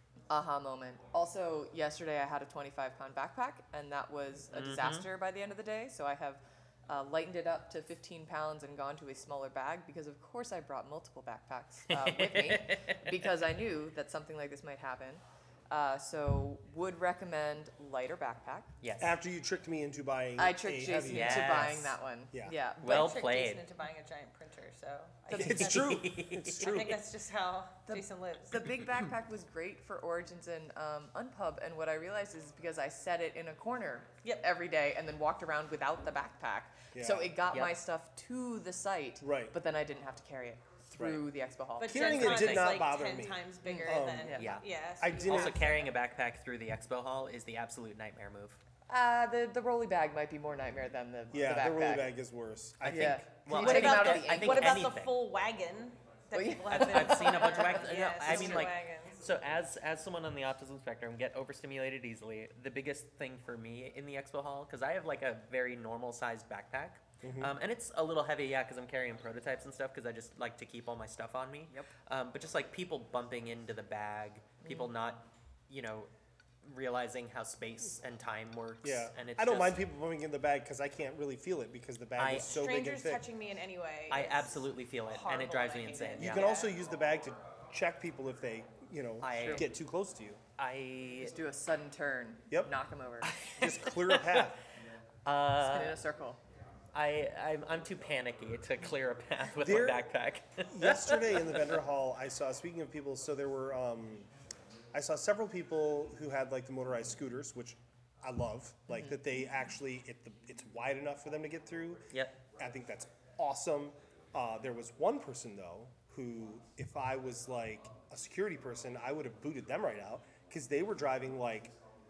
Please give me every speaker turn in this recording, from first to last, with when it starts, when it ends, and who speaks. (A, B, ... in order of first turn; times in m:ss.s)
0:00.3-0:18.7 A
0:04.5-0:05.1 B
0:11.9-0:13.2 B
0:18.8-0:19.2 B
0:19.0-0:22.6 C
0:20.4-0:23.1 A
0:21.0-0:21.9 B
0:22.8-0:23.6 B
0:22.8-0:25.8 D
0:25.3-0:25.8 A
0:25.3-0:27.0 C
0:25.4-0:26.8 B
0:26.6-0:28.6 D
0:27.9-0:42.2 A
0:36.9-0:37.4 C
0:37.5-0:37.8 B
0:39.2-0:39.5 C
0:41.0-0:41.3 C
0:41.8-0:45.9 D
0:41.9-0:44.4 C
0:42.0-0:42.7 B
0:43.6-0:44.5 A
0:44.3-0:44.6 B
0:45.0-0:45.7 C
0:45.2-0:48.6 B
0:48.9-0:52.1 A
0:51.3-0:53.2 C
0:52.8-0:55.2 B
0:52.9-0:54.9 A
0:53.5-0:59.2 D
0:56.3-0:58.7 A
0:56.7-1:16.1 B
1:07.2-1:07.5 C
1:14.6-1:14.9 A
1:16.6-1:19.8 B
1:18.8-1:23.2 C
1:22.2-1:22.6 B
1:22.4-1:26.7 D
1:24.1-1:26.5 B
1:26.2-1:30.4 C
1:29.2-1:29.7 B
1:29.4-1:29.7 A
1:30.6-1:31.3 B
1:31.2-1:33.3 A
1:33.2-1:34.5 B
1:33.5-1:34.6 C
1:35.2-1:36.0 B
1:35.6-1:36.4 A
1:36.9-1:41.8 B
1:39.6-1:40.0 C
1:40.7-1:44.3 C
1:44.9-2:01.7 C
1:48.9-1:49.2 A
1:52.1-1:52.4 B